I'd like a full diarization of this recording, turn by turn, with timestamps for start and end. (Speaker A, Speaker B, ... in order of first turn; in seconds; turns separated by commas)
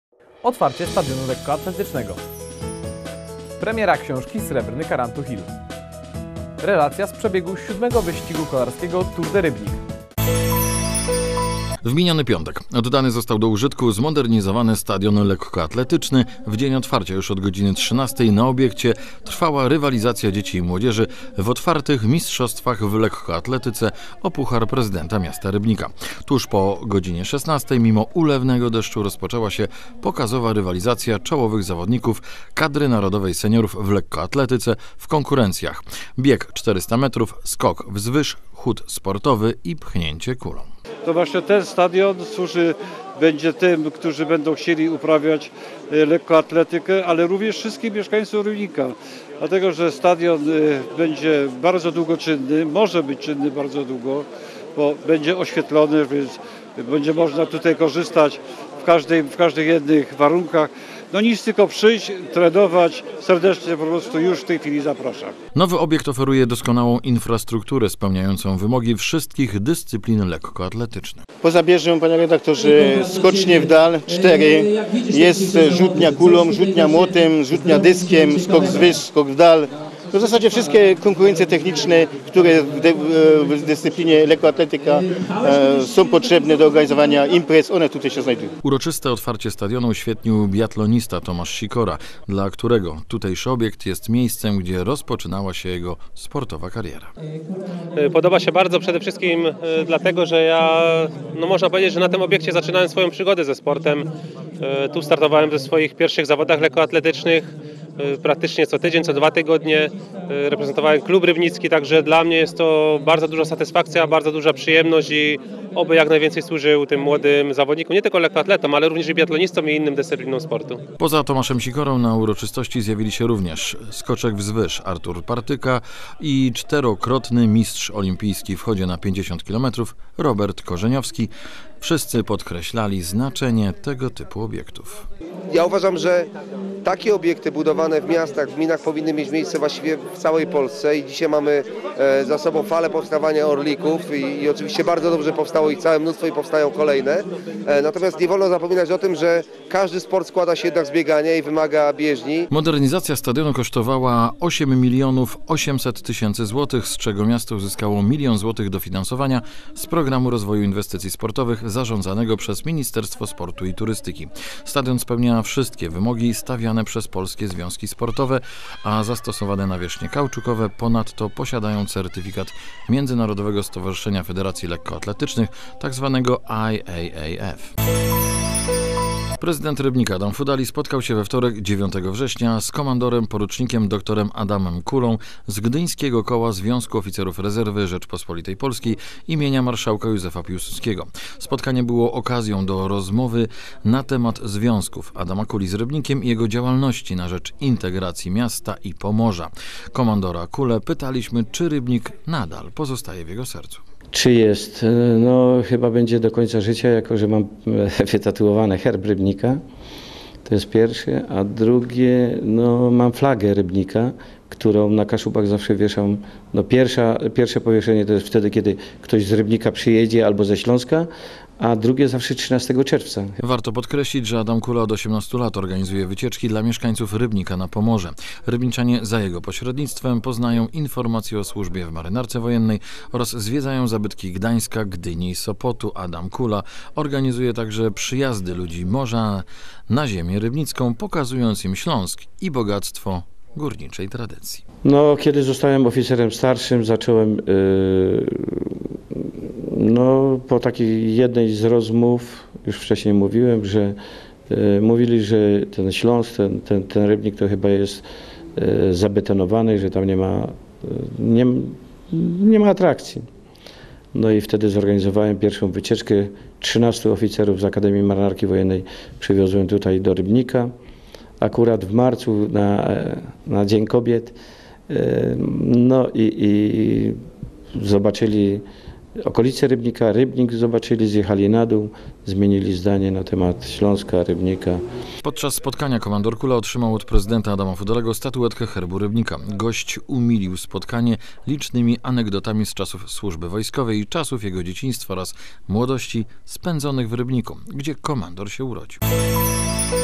Speaker A: 0.4-2.2, Speaker A: 3.6-5.5, Speaker A: 6.6-9.8, Speaker B: 11.8-40.7, Speaker C: 41.0-65.3, Speaker B: 65.5-71.2, Speaker D: 71.4-88.5, Speaker B: 88.6-97.1, Speaker E: 98.0-104.1, Speaker E: 104.6-120.8, Speaker B: 121.0-135.0, Speaker F: 135.5-136.3, Speaker F: 136.8-152.5, Speaker B: 152.5-177.7, Speaker B: 179.4-203.8, Speaker G: 204.1-209.6, Speaker G: 210.4-221.1, Speaker G: 221.6-223.3, Speaker B: 223.4-244.6, Speaker G: 244.8-248.8, Speaker G: 249.7-253.9, Speaker G: 254.5-258.0, Speaker G: 258.6-263.2, Speaker G: 264.1-270.7, Speaker G: 271.4-274.3, Speaker G: 274.9-277.1, Speaker G: 277.7-278.6, Speaker G: 279.2-284.8, Speaker B: 285.2-299.0